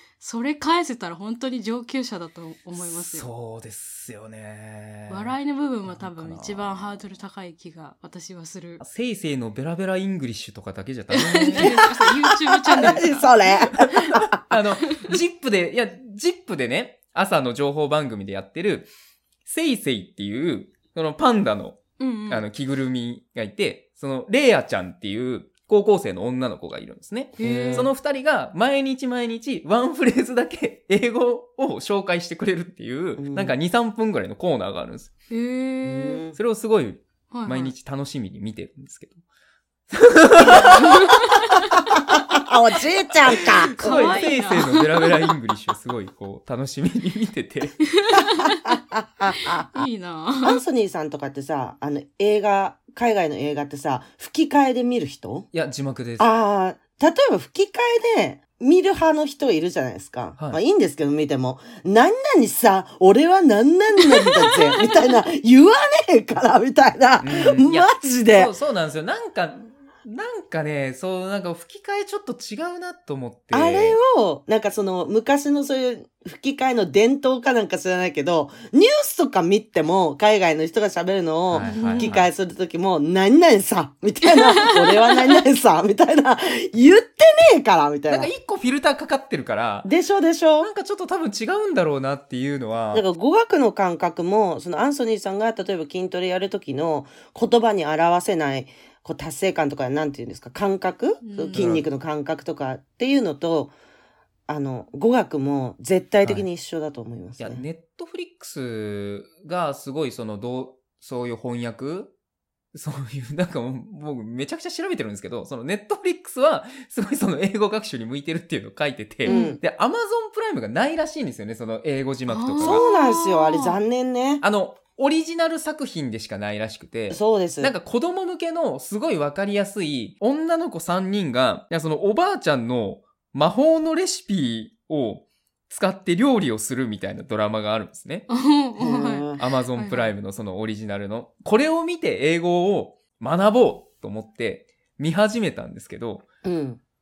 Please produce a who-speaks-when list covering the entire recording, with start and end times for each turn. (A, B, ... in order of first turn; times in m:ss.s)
0:00.2-0:03.3 A
0:02.8-0:05.4 B
0:05.1-0:08.8 A
0:05.9-0:07.0 B
0:08.8-0:11.9 B
0:11.1-0:13.3 A
0:11.6-0:12.1 C
0:12.7-0:14.6 C
0:13.9-0:18.9 B
0:19.5-0:35.1 B
0:22.0-0:22.4 A
0:27.4-0:27.9 A
0:27.5-0:27.8 C
0:33.2-0:33.6 C
0:35.3-0:36.2 A
0:35.8-0:36.4 C
0:36.4-0:39.2 B
0:37.3-0:37.7 A
0:39.9-0:41.3 B
0:40.5-0:40.9 C
0:40.8-0:41.2 A
0:42.0-0:44.2 C
0:43.4-0:47.8 B
0:43.8-0:44.9 A
0:48.0-0:48.5 A
0:48.2-0:49.9 C
0:49.7-0:50.6 A
0:50.4-0:55.5 C
0:55.5-0:56.3 B
0:56.2-1:08.5 C
1:04.2-1:05.2 A
1:07.2-1:14.0 B
1:13.5-1:28.3 C
1:21.5-1:22.3 B
1:21.6-1:22.2 A
1:28.1-1:29.9 B
1:29.8-1:30.7 C
1:30.6-1:33.0 B
1:32.9-1:43.7 C
1:41.2-1:41.7 A
1:41.6-1:41.9 B
1:44.5-1:47.6 C
1:47.4-1:52.1 B
1:52.7-2:02.8 B
1:59.3-1:59.6 A
1:59.3-1:59.6 C
2:02.3-2:03.8 A
2:02.6-2:04.4 C
2:04.4-2:18.3 B
2:07.1-2:07.7 C
2:18.3-2:20.1 A
2:18.8-2:19.4 C
2:19.4-2:26.3 B
2:26.4-2:26.8 C